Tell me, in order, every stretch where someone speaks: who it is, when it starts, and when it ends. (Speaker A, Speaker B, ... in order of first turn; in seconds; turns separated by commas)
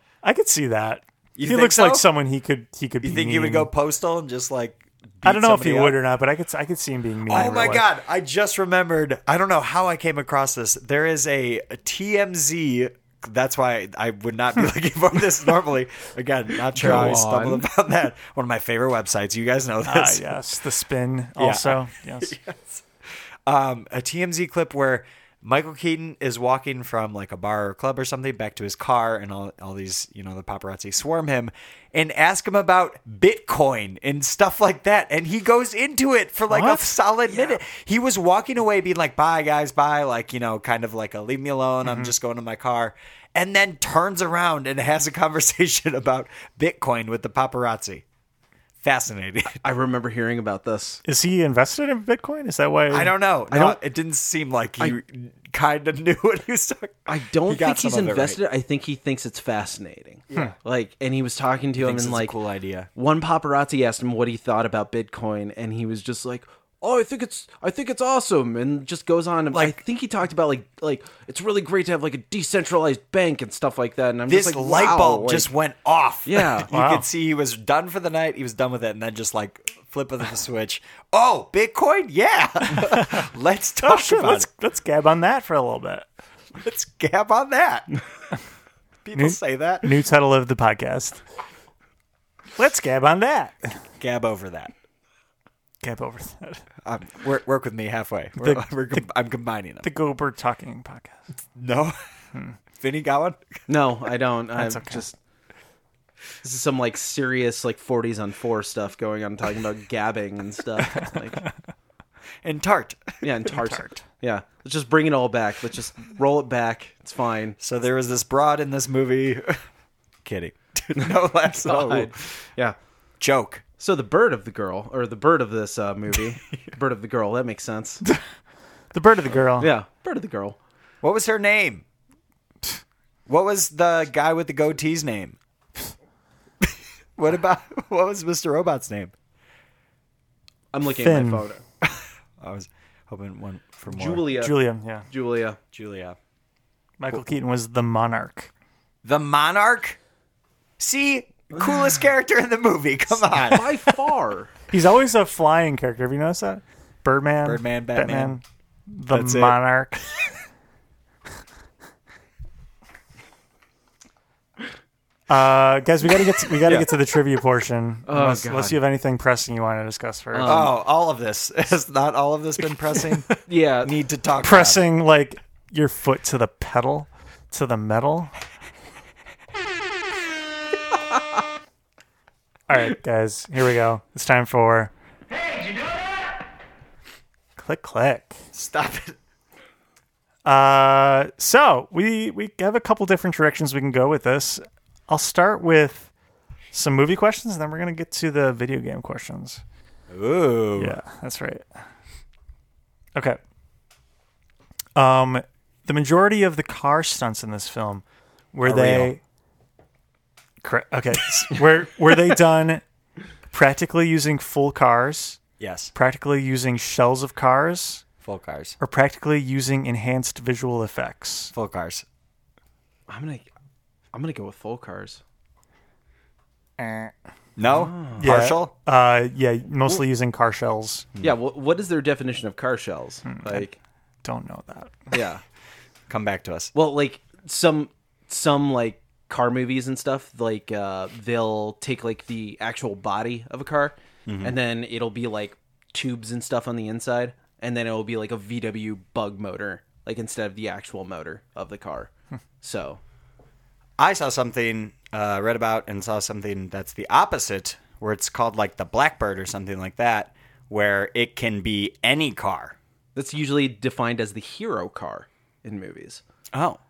Speaker A: 0.2-3.7, Speaker B: 1.3-2.1, Speaker B: 3.0-6.0, Speaker A: 5.2-7.8, Speaker B: 7.3-20.4, Speaker C: 16.7-17.6, Speaker A: 19.9-22.3, Speaker B: 21.4-22.9, Speaker B: 23.4-48.0, Speaker A: 36.5-37.0, Speaker A: 41.8-42.1, Speaker B: 48.8-49.6, Speaker C: 49.6-51.0, Speaker A: 51.0-53.1, Speaker B: 52.9-58.4, Speaker C: 53.5-53.8, Speaker C: 57.1-62.3, Speaker B: 61.8-62.9, Speaker C: 63.0-75.5, Speaker B: 69.5-69.8, Speaker B: 74.3-84.5, Speaker C: 76.2-76.7, Speaker A: 76.7-77.0, Speaker A: 82.7-83.3, Speaker A: 83.8-86.1, Speaker B: 86.6-87.9, Speaker B: 89.0-89.9, Speaker A: 89.1-91.2, Speaker A: 92.5-93.8, Speaker B: 94.0-94.7, Speaker A: 95.8-96.6, Speaker B: 96.8-99.9, Speaker A: 98.4-99.0, Speaker A: 99.8-101.2, Speaker B: 101.5-102.0, Speaker B: 102.8-103.5, Speaker C: 103.7-105.1, Speaker A: 104.6-105.0, Speaker C: 106.4-111.4, Speaker B: 112.4-113.2, Speaker C: 113.2-117.6, Speaker B: 117.6-119.6, Speaker B: 120.2-122.3, Speaker C: 121.0-122.8, Speaker B: 123.2-123.6, Speaker C: 123.8-128.0, Speaker A: 128.9-129.7, Speaker C: 129.6-130.6, Speaker B: 131.0-131.8, Speaker B: 133.3-135.4, Speaker B: 136.6-139.1, Speaker C: 140.7-141.6, Speaker A: 140.9-141.4, Speaker B: 141.8-144.2, Speaker C: 143.9-144.5, Speaker A: 144.4-145.0, Speaker C: 145.1-145.6, Speaker B: 145.7-146.2, Speaker A: 147.0-148.5, Speaker B: 149.0-150.0, Speaker B: 150.8-153.7, Speaker C: 153.4-154.5, Speaker A: 154.7-160.1, Speaker B: 157.4-158.3, Speaker B: 159.1-159.6, Speaker A: 165.3-170.5, Speaker C: 168.1-168.8, Speaker C: 170.3-170.7, Speaker B: 170.4-174.8, Speaker C: 173.4-173.9, Speaker A: 174.4-178.3, Speaker A: 182.7-184.9, Speaker A: 187.6-188.4, Speaker B: 188.5-189.2, Speaker A: 190.4-196.1, Speaker A: 196.7-199.6, Speaker B: 200.1-201.0, Speaker A: 200.8-201.6, Speaker A: 204.9-209.2, Speaker B: 208.6-209.1, Speaker A: 210.6-212.8, Speaker A: 213.5-215.4, Speaker B: 215.6-215.9, Speaker A: 215.9-218.0, Speaker B: 218.2-218.8, Speaker A: 218.8-221.5, Speaker B: 221.5-222.0, Speaker C: 223.1-223.4, Speaker C: 224.1-225.2, Speaker A: 226.8-227.1, Speaker B: 227.6-228.7, Speaker C: 227.7-228.3, Speaker A: 228.2-231.1, Speaker C: 231.2-233.8, Speaker A: 233.3-233.7, Speaker A: 234.2-235.1, Speaker C: 235.1-235.4, Speaker B: 236.1-236.7, Speaker C: 236.7-252.1, Speaker B: 244.2-244.5, Speaker C: 252.6-253.0, Speaker B: 254.0-262.8, Speaker C: 263.1-266.2, Speaker B: 266.5-266.8